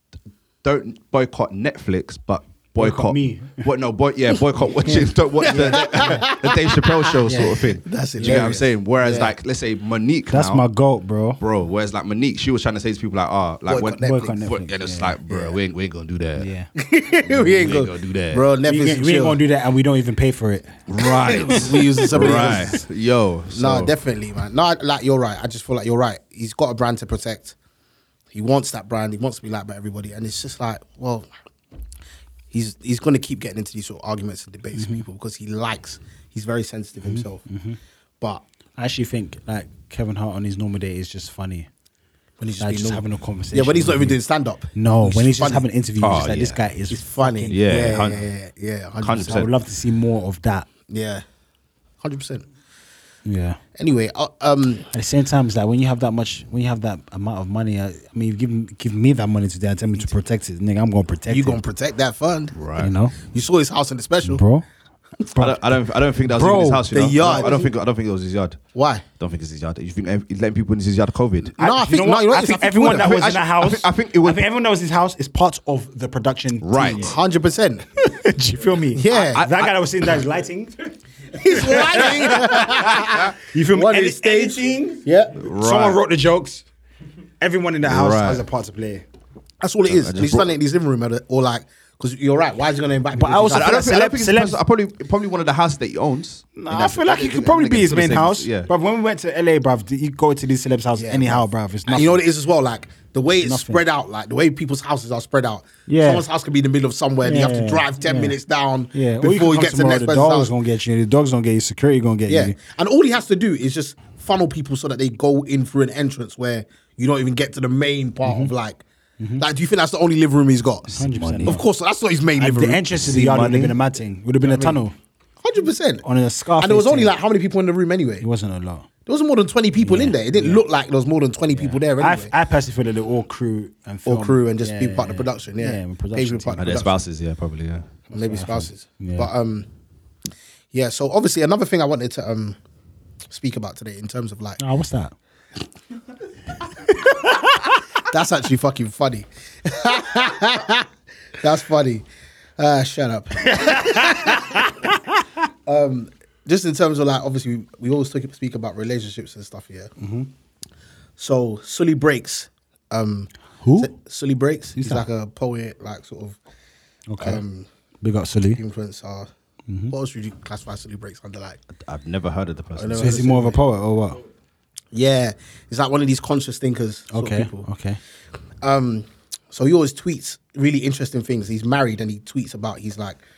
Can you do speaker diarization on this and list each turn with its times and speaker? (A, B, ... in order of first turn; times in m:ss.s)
0:00.6-0:10.7 A
0:02.8-0:03.7 B
0:04.8-0:06.2 B
0:05.4-0:09.4 C
0:07.3-0:07.7 B
0:08.2-0:08.5 B
0:10.3-0:11.4 B
0:11.4-0:16.5 A
0:13.7-0:14.4 C
0:14.0-0:15.2 B
0:15.3-0:15.6 C
0:16.4-0:16.7 B
0:16.8-0:19.4 C
0:17.2-0:18.4 A
0:18.7-0:22.8 B
0:20.9-0:23.9 A
0:21.0-0:22.8 C
0:23.5-0:27.6 C
0:28.3-0:31.3 C
0:32.5-0:37.4 C
0:34.8-0:35.0 B
0:37.0-0:37.8 B
0:38.8-0:41.7 B
0:42.4-0:45.7 C
0:42.6-0:44.2 B
0:44.8-0:48.0 B
0:46.0-0:46.6 A
0:46.9-0:49.5 C
0:47.5-0:48.2 A
0:49.0-0:49.5 A
0:49.2-0:50.7 B
0:50.9-0:51.2 C
0:52.0-0:52.4 C
0:53.2-0:53.6 B
0:53.8-0:54.9 C
0:54.9-1:01.6 B
1:01.3-1:02.5 C
1:02.5-1:02.9 A
1:02.8-1:03.2 B
1:03.2-1:04.4 C
1:04.2-1:04.6 B
1:05.3-1:05.6 B
1:05.4-1:08.6 A
1:06.2-1:07.3 B
1:06.9-1:07.7 C
1:08.8-1:09.0 C
1:09.2-1:11.6 A
1:11.6-1:13.3 C
1:11.6-1:17.2 B
1:12.9-1:14.4 A
1:16.6-1:17.2 A
1:16.8-1:17.9 C
1:18.0-1:26.6 B
1:18.9-1:19.4 C
1:19.1-1:19.7 A
1:21.3-1:25.4 C
1:25.4-1:26.0 A
1:27.4-1:29.0 B
1:27.8-1:28.4 A
1:29.6-1:33.8 C
1:29.9-1:30.5 A
1:33.2-1:34.6 B
1:33.5-1:38.7 A
1:36.6-1:42.2 B
1:41.0-1:50.5 C
1:43.4-1:43.8 B
1:45.9-1:46.3 B
1:47.2-1:48.4 B
1:48.9-1:52.6 B
1:52.3-1:58.8 C
1:58.2-1:58.5 B
1:59.4-2:03.8 C
2:00.9-2:01.6 B
2:01.0-2:01.5 A
2:02.4-2:05.0 B
2:04.4-2:04.8 C
2:05.4-2:06.0 C
2:06.0-2:07.1 B
2:06.6-2:08.3 C
2:08.2-2:08.9 B
2:09.1-2:12.3 C
2:09.8-2:10.6 B
2:11.6-2:16.8 B
2:14.1-2:17.0 C
2:16.6-2:18.0 A
2:18.1-2:19.3 B
2:18.1-2:19.7 C
2:20.7-2:22.6 C
2:23.3-2:24.6 C
2:24.6-2:25.2 B
2:27.1-2:27.6 B
2:28.0-2:32.1 C
2:32.6-2:35.0 C
2:33.4-2:35.2 B
2:35.7-2:39.9 C
2:40.0-2:40.3 B
2:41.2-2:46.4 C
2:43.6-2:43.9 B
2:44.8-2:45.0 B
2:47.1-2:47.4 B
2:47.2-2:47.7 C
2:48.0-2:48.6 B
2:48.5-2:49.3 C
2:49.7-2:49.9 B
2:49.9-2:51.6 C
2:51.8-2:53.1 A
2:52.8-2:53.6 C
2:53.0-2:54.2 B
2:54.9-2:57.7 C
2:57.1-2:58.0 B
2:58.6-3:03.2 C